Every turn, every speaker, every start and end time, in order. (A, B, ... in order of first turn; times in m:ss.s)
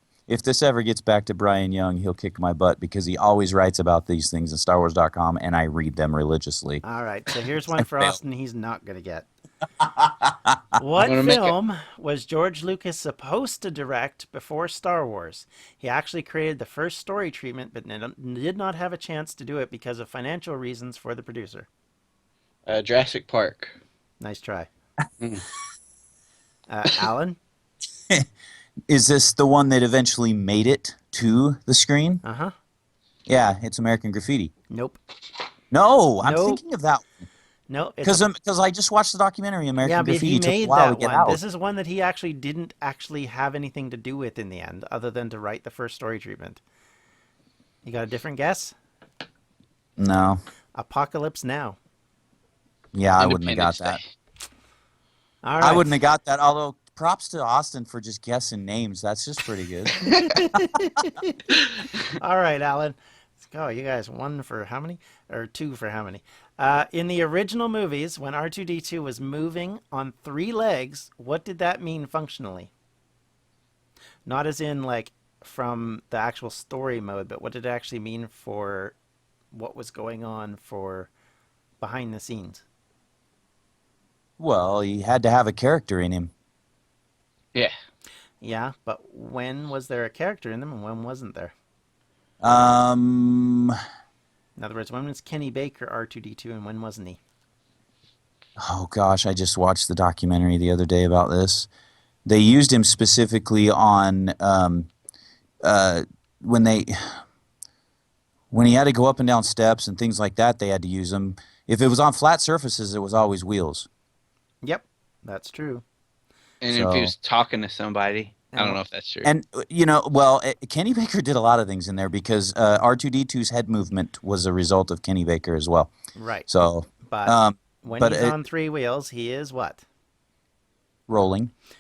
0:00.3-0:06.8 A
0:06.8-0:09.3 B
0:07.8-0:08.2 A
0:10.0-0:10.6 A
0:10.8-0:21.7 B
0:11.0-0:11.5 C
0:22.7-0:23.7 C
0:24.2-0:24.7 B
0:26.7-0:27.4 B
0:28.9-0:32.2 A
0:32.2-0:32.5 B
0:33.3-0:34.5 A
0:34.7-0:35.0 B
0:35.7-0:37.0 A
0:36.2-0:36.6 B
0:37.7-0:38.2 B
0:38.0-0:41.4 A
0:39.8-0:46.6 B
0:47.8-0:48.7 B
0:50.0-0:50.4 A
0:50.8-0:51.8 B
0:52.9-0:54.0 A
0:53.2-0:54.0 C
0:55.4-0:56.0 B
0:55.6-1:00.8 A
1:00.1-1:01.4 B
1:02.0-1:12.7 B
1:14.3-1:19.0 B
1:19.5-1:21.1 B
1:21.8-1:22.6 B
1:24.4-1:26.3 A
1:28.4-1:31.5 B
1:32.4-1:33.8 A
1:34.6-1:37.2 B
1:38.6-1:41.7 A
1:42.3-1:44.9 A
1:45.6-1:47.2 A
1:48.5-1:53.9 A
1:54.6-1:55.8 B
1:56.6-1:59.3 C
1:56.7-1:57.1 A
1:58.5-1:58.8 B
1:59.2-2:05.9 A
2:06.1-2:06.5 B
2:06.5-2:08.4 A
2:07.0-2:09.8 B
2:11.1-2:11.5 A